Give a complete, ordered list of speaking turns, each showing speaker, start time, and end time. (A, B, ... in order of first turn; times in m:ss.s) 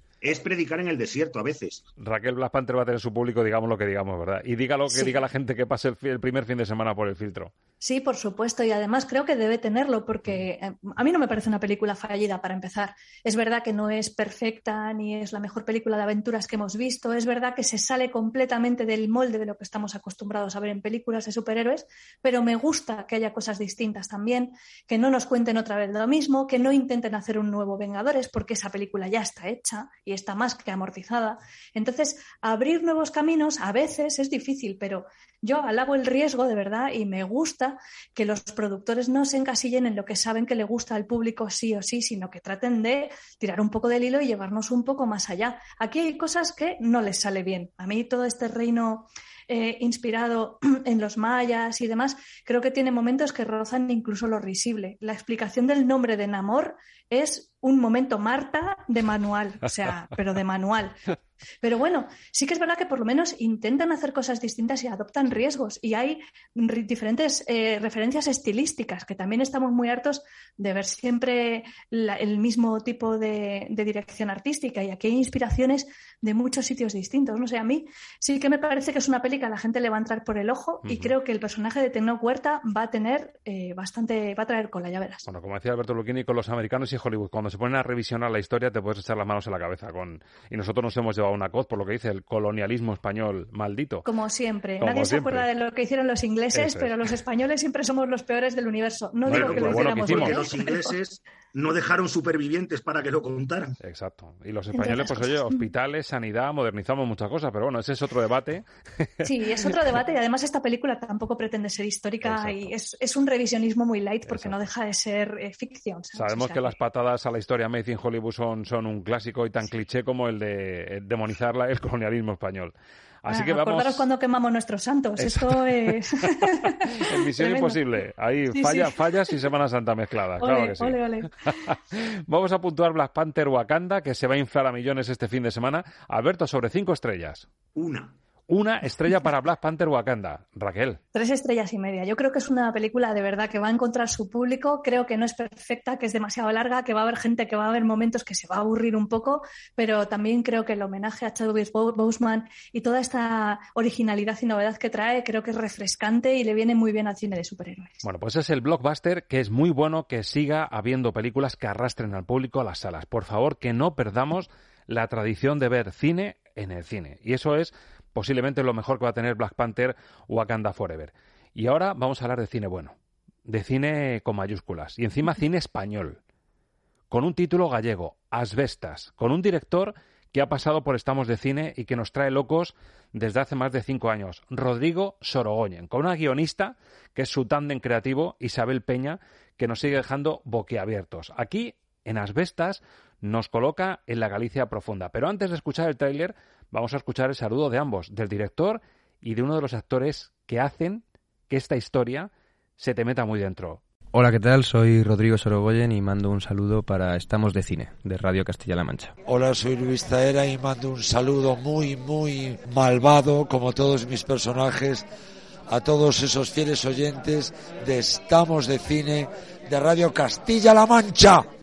0:00.2-0:01.8 A
0:02.0-0:07.5 B
0:07.8-1:01.0 C
1:01.6-1:25.3 C
1:20.8-1:21.1 B
1:25.3-1:34.1 B
1:34.0-1:40.9 C
1:34.8-1:35.5 B
1:36.5-1:37.0 B
1:39.3-1:40.5 B
1:39.3-1:43.7 A
1:43.8-1:49.3 B
1:44.7-1:45.6 C
1:49.2-1:56.8 C
1:52.2-1:52.7 B
1:54.3-1:54.6 B
1:56.2-2:04.1 B
2:03.3-2:07.8 C
2:05.2-2:06.0 B
2:06.9-2:17.5 B
2:08.5-2:09.1 C
2:10.4-2:11.3 C
2:17.8-2:18.1 A
2:18.5-2:21.0 B
2:21.1-2:38.0 C
2:38.0-2:56.2 B
2:57.1-3:23.8 B
3:24.1-3:29.2 D
3:29.2-3:35.1 E
3:35.7-3:41.5 E